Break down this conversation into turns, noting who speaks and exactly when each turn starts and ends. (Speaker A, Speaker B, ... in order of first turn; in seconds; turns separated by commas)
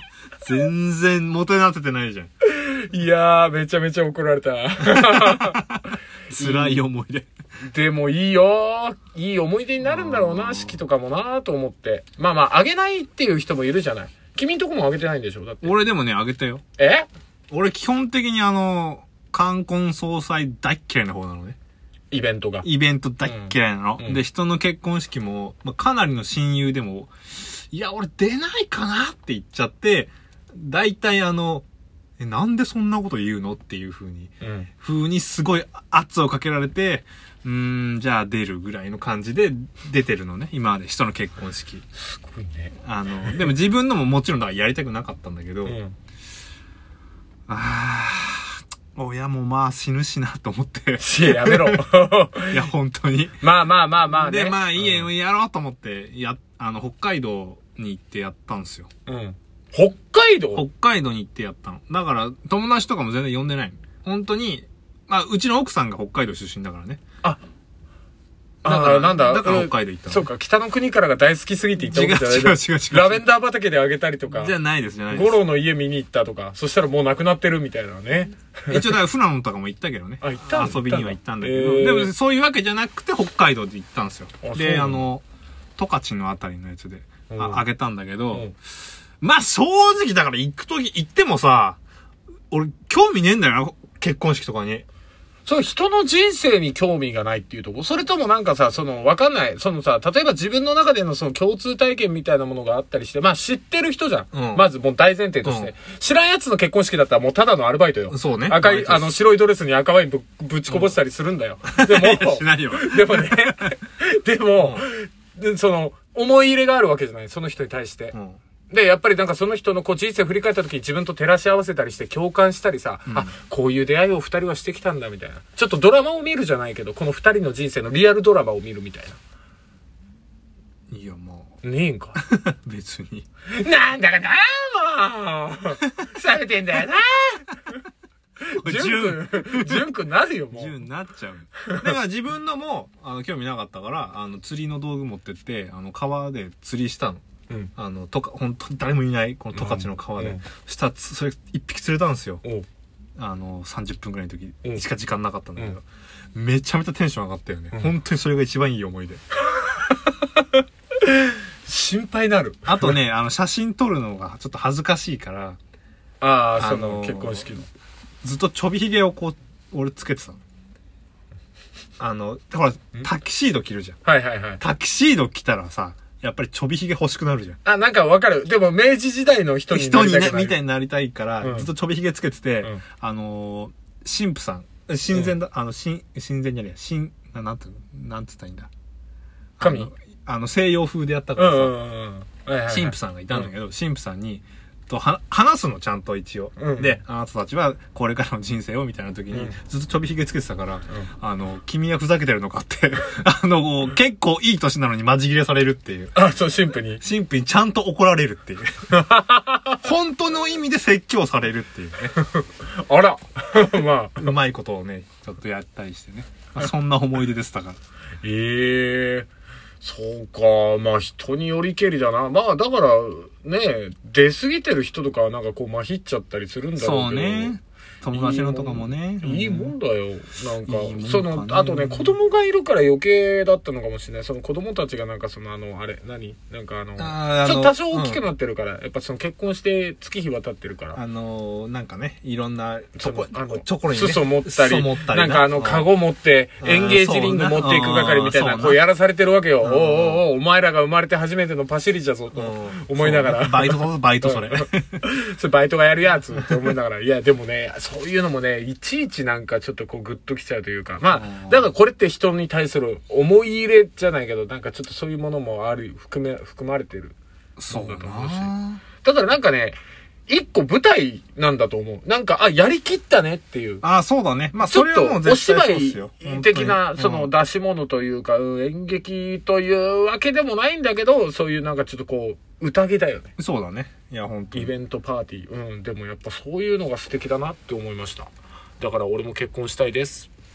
Speaker A: 0.4-2.3, Speaker B: 2.5-5.6, Speaker A: 5.0-7.3, Speaker B: 6.3-6.8, Speaker B: 7.6-15.8, Speaker A: 9.8-10.8, Speaker A: 15.6-16.6, Speaker B: 16.8-17.1, Speaker A: 17.5-21.6, Speaker B: 22.1-22.7, Speaker A: 22.6-31.6, Speaker B: 23.2-24.2, Speaker A: 32.2-41.9, Speaker B: 34.4-34.7, Speaker B: 42.0-42.7, Speaker A: 42.8-45.8, Speaker B: 45.6-46.0, Speaker A: 47.5-51.8, Speaker B: 51.0-52.7, Speaker A: 52.5-53.4, Speaker B: 53.4-55.1, Speaker A: 54.0-58.9, Speaker B: 59.1-60.6, Speaker A: 60.5-67.0, Speaker A: 68.6-70.3, Speaker B: 68.6-74.5, Speaker A: 71.8-73.2, Speaker A: 74.3-75.4, Speaker B: 75.1-78.9, Speaker A: 78.7-85.2, Speaker B: 80.2-82.1, Speaker B: 84.4-85.1, Speaker A: 85.8-88.5, Speaker B: 87.3-87.6, Speaker A: 89.2-91.8, Speaker A: 92.5-94.8, Speaker B: 95.5-118.1, Speaker A: 104.3-104.7, Speaker A: 105.5-105.7, Speaker A: 108.1-109.2, Speaker A: 111.7-113.7, Speaker A: 114.6-114.9, Speaker A: 118.1-118.4, Speaker B: 118.7-129.2, Speaker A: 130.9-131.6, Speaker B: 131.6-132.2, Speaker A: 132.2-133.3, Speaker B: 133.5-137.5, Speaker B: 138.4-140.8, Speaker A: 138.6-139.9, Speaker A: 140.5-147.2, Speaker B: 141.6-141.9, Speaker A: 147.8-152.4, Speaker B: 149.5-150.4, Speaker A: 153.2-159.2, Speaker B: 159.5-163.0, Speaker A: 162.7-165.6, Speaker B: 166.2-167.7, Speaker A: 166.6-167.5, Speaker A: 168.2-170.4, Speaker A: 172.0-174.0, Speaker B: 174.1-174.6, Speaker A: 174.6-177.6, Speaker B: 177.7-180.6, Speaker A: 179.7-188.7, Speaker B: 181.4-181.7, Speaker A: 189.6-191.8, Speaker B: 189.6-189.9, Speaker B: 191.4-193.5, Speaker A: 192.7-206.2, Speaker B: 196.6-197.0, Speaker B: 206.2-207.0, Speaker A: 207.0-208.7, Speaker B: 208.9-209.8, Speaker A: 209.8-212.1, Speaker B: 212.2-214.3, Speaker A: 214.2-217.8, Speaker B: 218.2-219.3, Speaker B: 219.8-227.6, Speaker A: 226.8-229.7, Speaker B: 228.1-241.0, Speaker A: 230.7-232.2, Speaker A: 237.0-238.2, Speaker A: 240.9-245.9, Speaker B: 243.0-267.2, Speaker A: 246.6-248.8, Speaker A: 249.6-250.2, Speaker A: 252.3-255.0, Speaker A: 261.1-261.7, Speaker A: 267.6-268.8, Speaker B: 267.7-273.8, Speaker A: 273.8-277.3, Speaker B: 274.6-283.3, Speaker A: 283.4-284.7, Speaker B: 284.5-290.3